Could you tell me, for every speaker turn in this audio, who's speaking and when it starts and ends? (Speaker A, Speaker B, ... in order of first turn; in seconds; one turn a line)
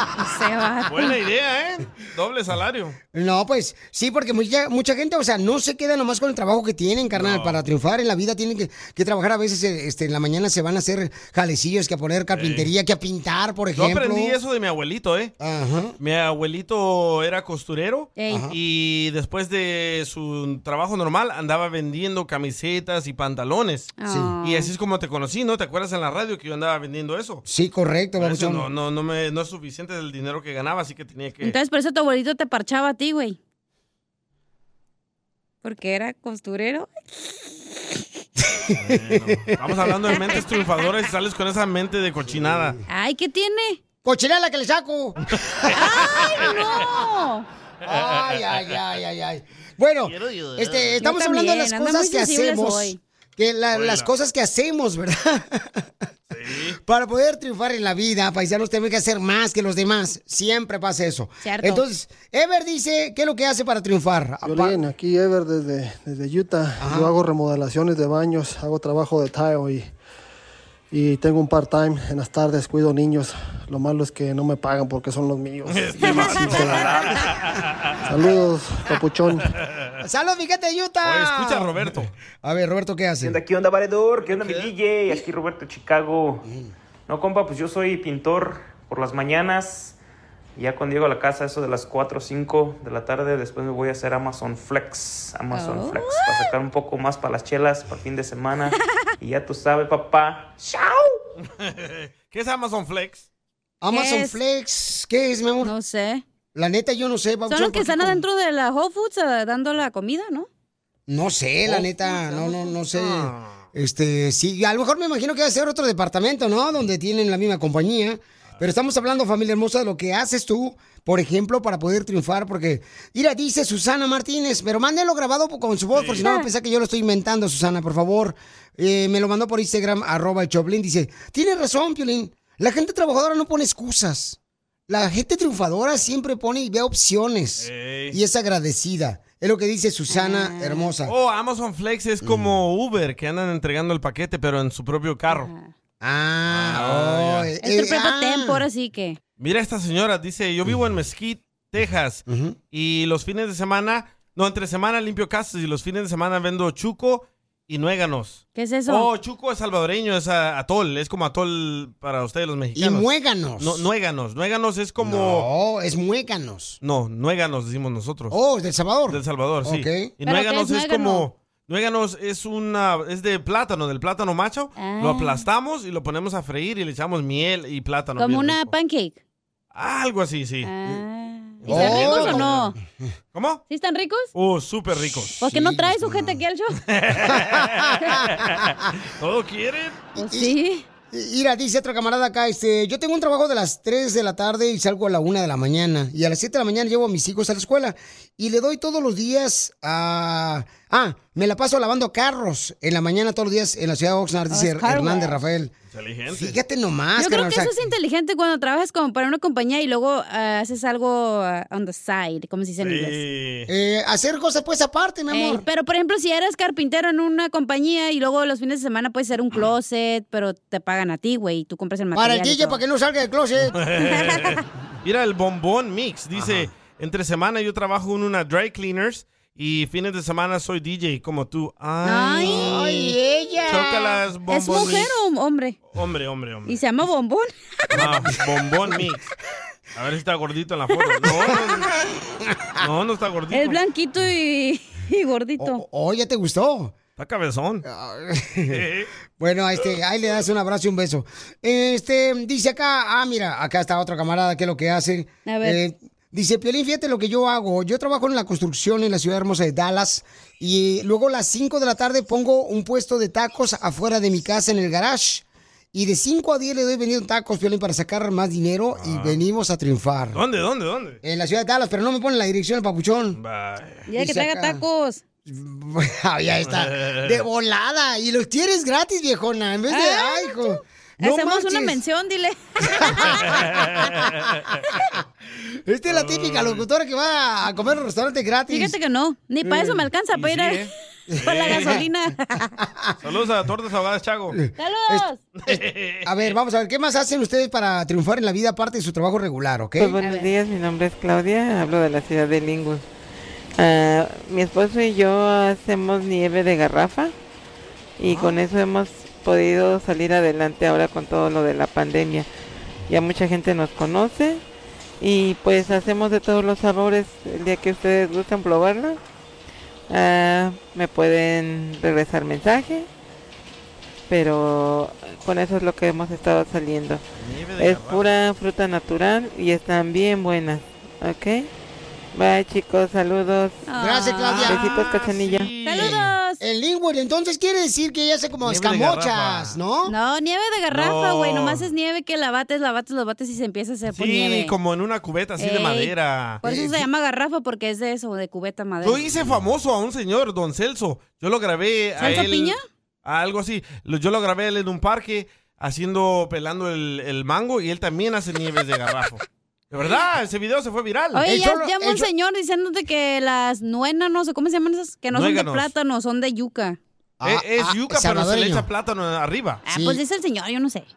Speaker A: 0.2-1.1
Speaker B: 0.9-3.0
Speaker C: 3.1-14.3
Speaker B: 7.1-7.6
Speaker B: 12.3-12.7
Speaker B: 13.8-15.3
Speaker C: 15.4-15.9
Speaker B: 16.0-27.4
Speaker A: 18.2-18.5
Speaker C: 18.3-18.6
Speaker A: 24.0-24.7
Speaker C: 24.1-24.3
Speaker C: 27.5-28.7
Speaker B: 28.2-31.6
Speaker A: 31.4-33.4
Speaker A: 35.6-38.0
Speaker C: 38.6-39.4
Speaker B: 38.8-42.8
Speaker A: 42.9-43.8
Speaker C: 44.0-46.9
Speaker A: 45.7-47.5
Speaker B: 46.1-46.5
Speaker C: 47.8-55.8
Speaker B: 47.9-48.7
Speaker B: 50.0-51.0
Speaker A: 51.0-53.0
Speaker B: 53.7-54.1
Speaker B: 56.3-56.8
Speaker C: 56.9-64.8
Speaker A: 61.4-61.9
Speaker D: 64.4-69.9
Speaker C: 66.8-67.2
Speaker D: 70.9-77.2
Speaker B: 75.7-78.0
Speaker A: 76.0-76.6
Speaker D: 78.1-79.5
Speaker C: 80.0-81.9
Speaker B: 81.0-82.1
Speaker C: 82.4-83.4
Speaker E: 83.2-86.4
Speaker B: 84.3-84.7
Speaker E: 87.1-90.0
Speaker E: 90.6-100.5
Speaker A: 95.5-96.4
Speaker C: 100.6-101.0
Speaker B: 101.5-103.2
Speaker C: 103.8-105.7
Speaker A: 103.9-104.4
Speaker A: 105.6-106.2
Speaker C: 106.5-108.2
Speaker A: 107.5-110.5
Speaker C: 111.1-134.4
Speaker B: 111.7-111.9
Speaker A: 112.0-112.7
Speaker B: 112.9-113.7
Speaker B: 125.9-126.2
Speaker C: 134.9-141.1
Speaker B: 137.6-138.2
Speaker A: 140.1-140.9
Speaker B: 141.1-145.5
Speaker C: 142.2-142.5
Speaker A: 145.3-145.7
Speaker C: 146.0-148.6
Speaker B: 146.5-147.5
Speaker A: 147.6-149.2
Speaker B: 149.4-165.5
Speaker C: 152.3-152.6
Speaker A: 158.6-159.1
Speaker C: 162.8-163.9
Speaker C: 165.0-166.8
Speaker B: 166.8-168.4
Speaker C: 168.3-170.1
Speaker B: 169.1-178.7
Speaker A: 170.2-171.2
Speaker A: 174.8-175.4
Speaker A: 178.2-179.2
Speaker B: 179.7-180.7
Speaker A: 180.6-182.8
Speaker B: 181.6-182.7
Speaker C: 181.7-182.5
Speaker B: 183.3-183.6
Speaker A: 183.7-184.3
Speaker B: 184.3-185.4
Speaker A: 185.4-186.8
Speaker C: 185.4-186.4
Speaker B: 186.9-190.0
Speaker C: 187.3-188.7
Speaker C: 190.2-190.5
Speaker A: 190.2-190.8
Speaker C: 191.1-205.7
Speaker A: 204.5-205.4
Speaker B: 205.9-206.6
Speaker C: 206.3-207.7
Speaker A: 207.2-213.2
Speaker B: 212.8-213.7
Speaker C: 213.7-215.6
Speaker A: 215.3-222.8
Speaker C: 222.1-223.8
Speaker B: 223.8-233.1
Speaker A: 224.0-224.5
Speaker C: 226.3-226.7
Speaker A: 232.0-233.0
Speaker C: 232.4-234.2
Speaker B: 233.7-235.1
Speaker A: 234.5-235.8
Speaker B: 235.9-236.8
Speaker A: 236.7-237.5
Speaker C: 237.9-238.3
Speaker B: 237.9-239.2
Speaker B: 239.9-241.9
Speaker B: 242.8-243.8
Speaker A: 243.5-245.8
Speaker C: 245.6-246.9
Speaker B: 247.2-247.9
Speaker C: 247.9-248.8
Speaker B: 248.7-249.1
Speaker C: 249.4-270.4
Speaker A: 255.5-255.8
Speaker B: 269.0-269.4
Speaker B: 270.3-271.2
Speaker C: 271.2-273.4
Speaker B: 273.4-274.1
Speaker A: 274.1-275.2
Speaker C: 274.2-274.8
Speaker C: 275.5-282.0
Speaker B: 276.6-277.4
Speaker A: 279.9-283.5
Speaker C: 283.0-283.7
Speaker B: 283.4-284.8
Speaker C: 285.9-289.0
Speaker B: 286.1-286.9
Speaker A: 288.7-290.8
Speaker C: 289.6-290.0
Speaker B: 290.3-292.0
Speaker C: 291.3-292.0
Speaker A: 291.4-292.7
Speaker C: 292.8-293.1
Speaker B: 293.2-294.6
Speaker C: 294.5-300.2
Speaker A: 294.8-295.4
Speaker B: 295.6-296.5
Speaker F: 300.0-303.0
Speaker A: 300.2-300.5
Speaker F: 303.8-307.3
Speaker F: 308.2-312.5
Speaker B: 308.2-308.6
Speaker F: 313.1-314.6
Speaker F: 315.2-319.2
Speaker F: 320.1-323.1
Speaker F: 324.3-327.2
Speaker B: 327.4-328.4
Speaker F: 327.8-331.7
Speaker F: 332.3-333.9
Speaker A: 333.9-335.1
Speaker C: 334.0-334.8
Speaker B: 334.4-336.3
Speaker F: 334.6-335.7
Speaker A: 335.8-336.6
Speaker C: 336.0-340.1
Speaker B: 338.6-339.8
Speaker A: 340.1-344.7
Speaker B: 340.9-341.9
Speaker B: 344.1-346.6
Speaker A: 345.6-349.2
Speaker C: 346.6-347.1
Speaker B: 349.0-361.4
Speaker A: 352.2-352.8
Speaker A: 361.3-367.0
Speaker C: 361.4-362.3
Speaker B: 365.3-365.9
Speaker C: 367.4-368.9
Speaker B: 367.4-369.8
Speaker A: 369.9-371.1
Speaker C: 369.9-370.2